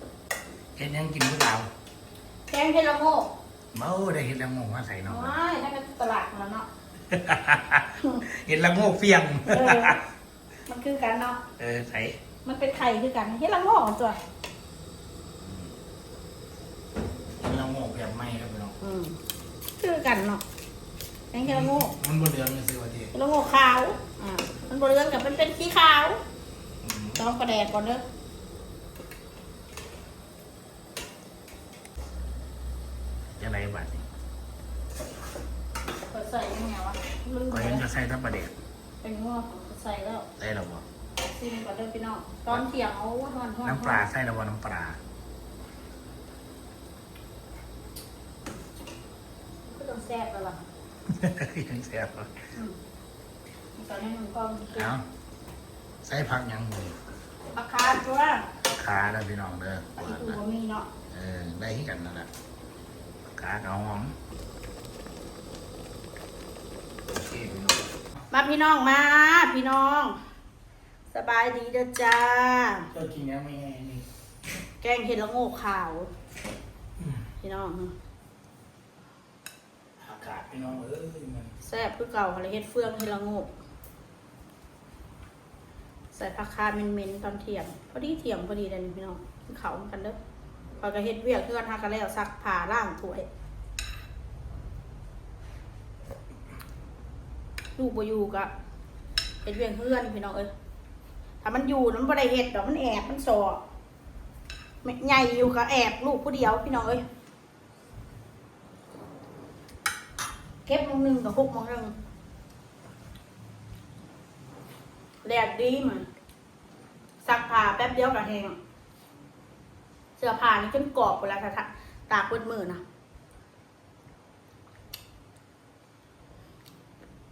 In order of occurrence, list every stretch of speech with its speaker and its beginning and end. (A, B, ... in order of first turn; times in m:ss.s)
0:00.8-0:01.7 A
0:02.5-0:03.3 B
0:03.7-0:05.4 A
0:05.1-0:06.7 B
0:07.1-0:10.0 A
0:09.5-0:10.0 B
0:10.7-0:11.4 B
0:11.6-0:12.2 A
0:12.4-0:14.2 B
0:15.4-0:15.7 A
0:17.4-0:18.8 A
0:18.8-0:19.2 B
0:19.8-0:20.4 B
0:21.3-0:21.9 B
0:21.4-0:23.1 A
0:23.1-0:26.2 B
0:26.8-0:27.2 A
0:27.2-0:28.0 B
0:33.4-0:34.0 A
0:36.1-0:37.8 B
0:37.5-0:38.5 A
0:39.0-0:40.3 B
0:40.4-0:40.8 A
0:41.3-0:44.1 B
0:43.6-0:45.0 A
0:49.7-0:50.6 B
0:51.1-0:52.3 A
0:53.8-0:54.9 B
0:54.7-0:55.0 A
0:56.0-0:57.0 A
0:57.5-0:58.5 B
0:58.8-1:00.4 A
1:00.0-1:00.9 B
1:01.1-1:02.3 A
1:03.4-1:04.1 A
1:07.1-1:07.8 A
1:08.3-1:10.2 B
1:11.1-1:12.9 B
1:12.9-1:14.0 A
1:14.8-1:16.1 B
1:17.4-1:18.0 B
1:20.0-1:21.5 A
1:21.6-1:23.5 B
1:26.1-1:30.2 B
1:30.8-1:33.3 B
1:37.8-1:38.5 B
1:39.4-1:40.5 B
1:41.4-1:43.6 B
1:44.8-1:47.0 B
1:50.6-1:51.9 B
1:55.2-1:56.1 B
1:57.2-1:58.6 B
2:00.2-2:02.8 B